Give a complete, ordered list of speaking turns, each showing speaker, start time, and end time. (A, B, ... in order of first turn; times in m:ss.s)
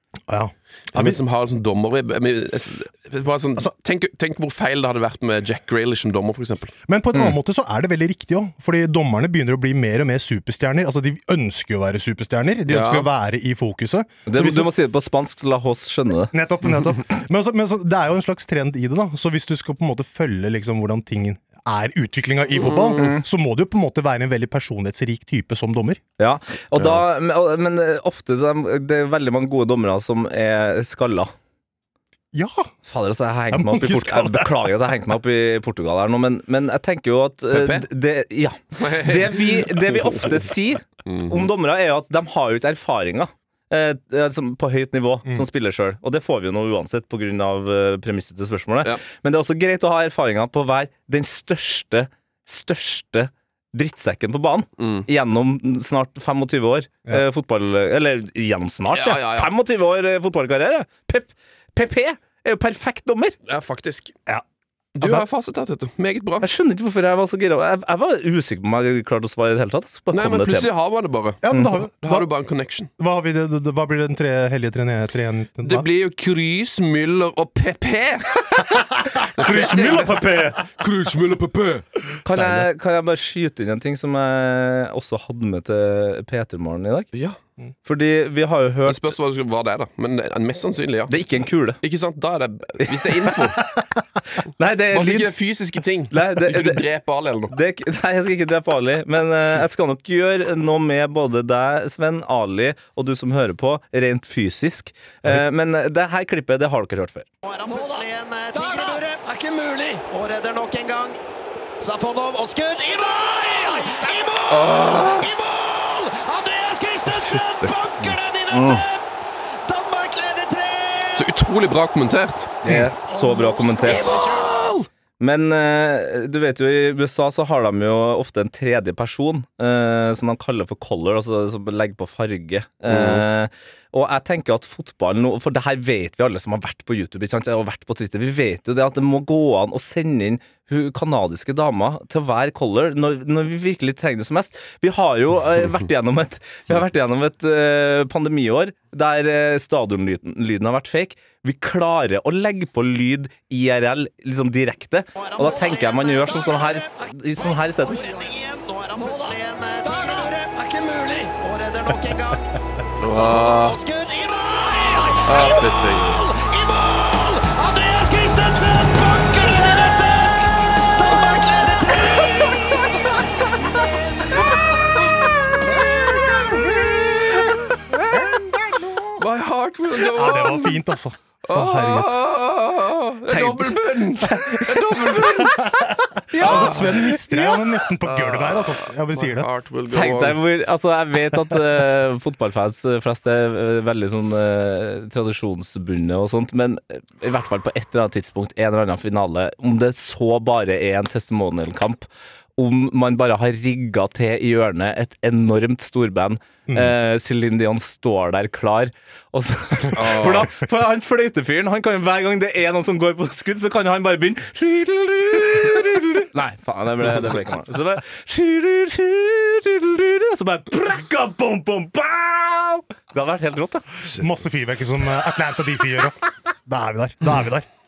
0:00.3-0:01.2 A
0:00.9-0:06.7 B
0:06.9-0:14.4 A
0:12.7-0:13.1 B
0:14.3-0:16.3 C
0:16.3-0:26.0 A
0:22.6-0:23.2 B
0:26.2-0:31.3 C
0:26.8-0:27.0 B
0:32.3-0:32.7 A
0:32.9-1:03.4 C
0:33.5-0:34.7 A
0:37.5-0:37.9 B
0:38.8-0:40.5 B
0:41.1-0:41.5 B
0:54.8-0:55.1 B
0:58.9-0:59.5 B
1:03.5-1:04.2 B
1:05.0-1:06.5 B
1:05.0-1:05.2 A
1:06.4-1:10.7 C
1:10.1-1:11.5 B
1:11.4-1:12.3 A
1:12.0-1:12.9 B
1:13.0-1:15.9 A
1:15.6-1:18.6 B
1:19.2-1:20.6 C
1:19.4-1:21.9 B
1:19.4-1:20.2 A
1:22.2-1:27.1 C
1:22.3-1:22.7 A
1:27.9-1:29.1 C
1:28.9-1:31.1 B
1:31.1-1:31.8 C
1:31.8-1:33.6 B
1:32.8-1:33.4 C
1:34.4-1:35.3 C
1:34.9-1:37.6 B
1:36.1-1:36.8 C
1:37.5-1:47.3 C
1:47.4-1:51.2 D
1:51.8-1:59.0 D
1:54.5-1:55.3 B
1:57.1-1:57.7 B
1:58.5-1:58.9 C
1:59.6-2:01.3 D
2:01.2-2:02.7 B
2:02.6-2:04.3 C
2:03.1-2:04.7 D
2:03.8-2:04.7 B
2:05.2-2:38.0 C
2:12.9-2:13.2 B
2:35.2-2:52.9 D
2:43.0-2:43.8 B
2:45.2-2:46.3 B
2:54.2-2:55.0 D
2:55.8-2:57.1 B
2:58.1-2:59.2 A
2:59.2-3:00.8 B
3:00.0-3:02.1 A
3:01.4-3:05.6 B
3:03.3-3:05.6 C
3:05.5-3:09.5 A
3:06.3-3:07.6 C
3:06.4-3:07.2 B
3:08.0-3:10.4 B
3:09.9-3:43.9 C
3:26.7-3:26.9 A
3:29.9-3:30.5 B
3:44.2-3:47.7 A